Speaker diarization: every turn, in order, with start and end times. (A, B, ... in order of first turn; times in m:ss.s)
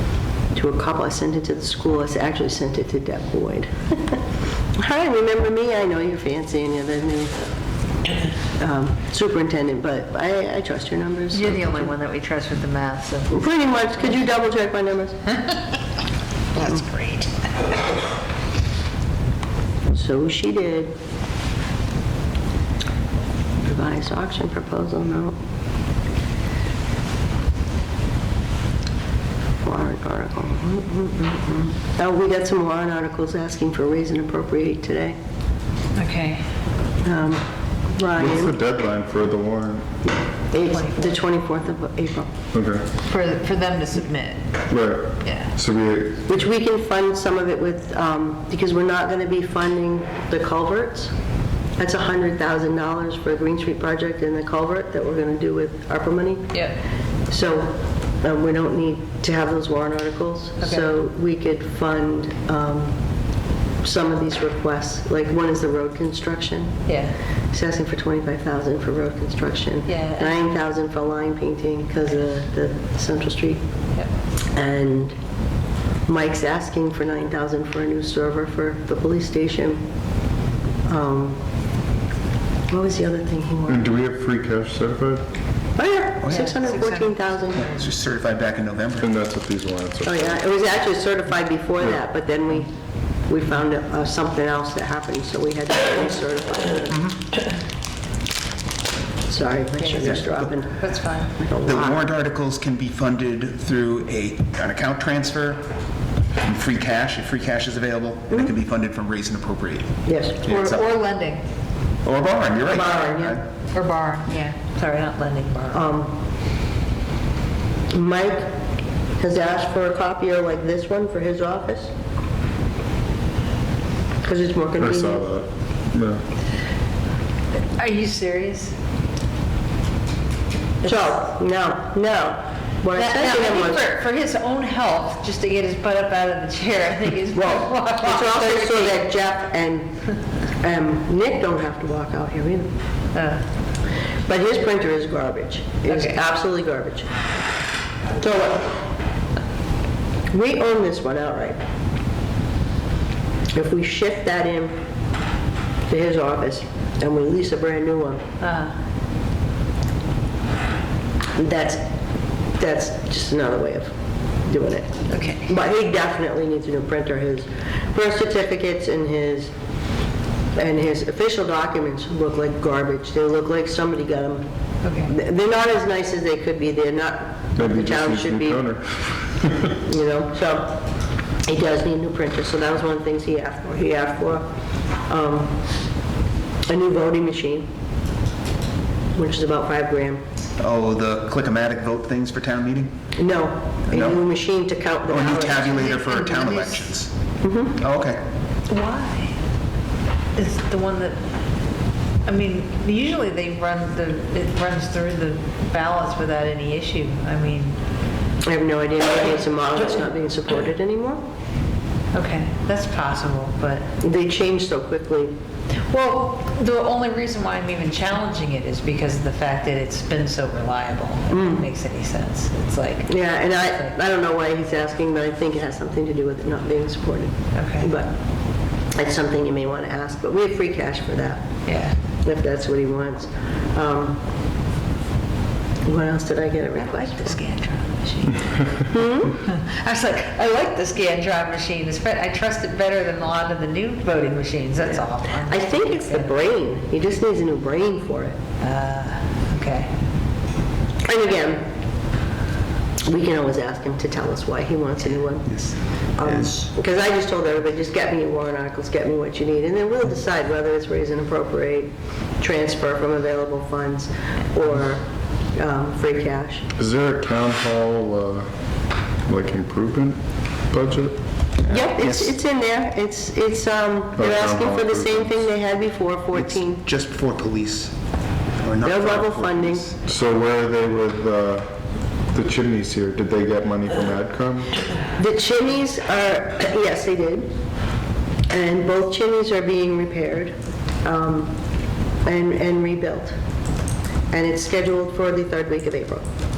0:00.5-0:04.2 A
0:04.8-0:07.4 A
0:08.6-0:11.9 A
0:11.3-0:13.3 B
0:13.3-0:15.2 A
0:16.6-0:17.3 B
0:19.9-0:21.0 A
0:23.6-0:25.4 A
0:29.6-0:35.2 A
0:36.0-0:36.4 B
0:37.0-0:38.6 A
0:38.2-0:40.0 C
0:40.5-0:42.3 A
0:40.6-0:41.2 B
0:42.5-0:42.9 C
0:43.0-0:44.4 B
0:44.7-0:46.3 C
0:45.2-0:45.5 B
0:46.3-0:51.1 A
0:51.8-0:56.6 A
0:57.3-1:03.0 A
1:00.6-1:00.9 B
1:03.8-1:06.8 A
1:06.9-1:07.2 B
1:07.5-1:13.6 A
1:09.9-1:10.5 B
1:14.5-1:15.2 A
1:16.1-1:19.8 A
1:20.8-1:21.4 A
1:22.7-1:23.9 A
1:23.7-1:25.3 C
1:25.8-1:27.6 A
1:26.2-1:26.9 D
1:26.3-1:28.0 B
1:27.5-1:29.1 D
1:29.0-1:30.4 C
1:30.0-1:32.7 A
1:33.3-1:37.1 A
1:39.3-1:40.8 A
1:39.8-1:41.4 B
1:41.4-1:42.0 A
1:41.6-1:45.6 D
1:46.4-1:50.9 D
1:50.0-1:50.8 A
1:50.5-1:51.4 B
1:52.0-1:53.4 D
1:52.7-1:53.4 A
1:53.7-1:55.8 B
1:55.7-1:56.2 A
1:57.9-1:58.6 A
1:59.2-2:01.9 A
2:04.2-2:05.3 A
2:04.8-2:06.2 C
2:07.6-2:08.8 B
2:10.8-2:11.1 B
2:10.8-2:13.9 A
2:13.0-2:19.0 B
2:17.3-2:20.0 A
2:20.6-2:22.7 A
2:23.1-2:23.4 B
2:24.3-2:27.1 A
2:25.9-2:26.2 B
2:28.2-2:28.9 A
2:30.3-2:31.6 A
2:33.5-2:34.8 A
2:35.9-2:38.2 A
2:38.4-2:38.8 B
2:41.4-2:41.9 A
2:42.6-2:43.9 A
2:44.4-2:49.5 A
2:45.1-2:45.5 B
2:50.6-2:54.4 A
2:54.8-2:55.1 B
2:55.1-2:58.6 A
2:57.6-2:59.8 C
2:59.8-3:00.8 A
3:01.4-3:04.5 A
3:05.1-3:05.6 A
3:06.7-3:07.7 A
3:09.2-3:10.2 A
3:10.6-3:13.0 D
3:13.2-3:16.0 A
3:13.9-3:14.2 D
3:15.1-3:17.1 D
3:15.8-3:16.8 B
3:17.4-3:17.8 A
3:17.8-3:18.2 D
3:18.7-3:19.4 B
3:20.4-3:21.2 B
3:22.3-3:27.8 B
3:28.4-3:31.2 A
3:32.1-3:33.9 B
3:34.0-3:35.4 A
3:35.9-3:43.9 B
3:41.3-3:41.7 A
3:43.1-3:48.2 A
3:47.5-3:47.9 B
3:48.9-3:51.6 A
3:51.7-3:52.0 B
3:52.2-3:54.2 A
3:55.9-3:57.4 A
3:57.0-3:58.7 B
3:58.8-3:59.4 A
3:59.4-4:06.3 B
4:05.4-4:08.4 A
4:08.6-4:09.9 B
4:11.1-4:11.7 A
4:13.0-4:15.6 A
4:16.2-4:26.6 A
4:16.2-4:16.7 D
4:26.8-4:28.5 C
4:29.3-4:31.2 C
4:31.7-4:36.8 A
4:31.8-4:32.3 D
4:34.2-4:35.4 C
4:36.3-4:37.9 D
4:38.6-4:40.0 D
4:38.8-4:39.9 A
4:40.1-4:41.7 C
4:42.3-4:44.8 C
4:45.2-4:47.5 A
4:48.5-4:51.6 A
4:52.2-4:53.3 A
4:54.3-4:56.2 A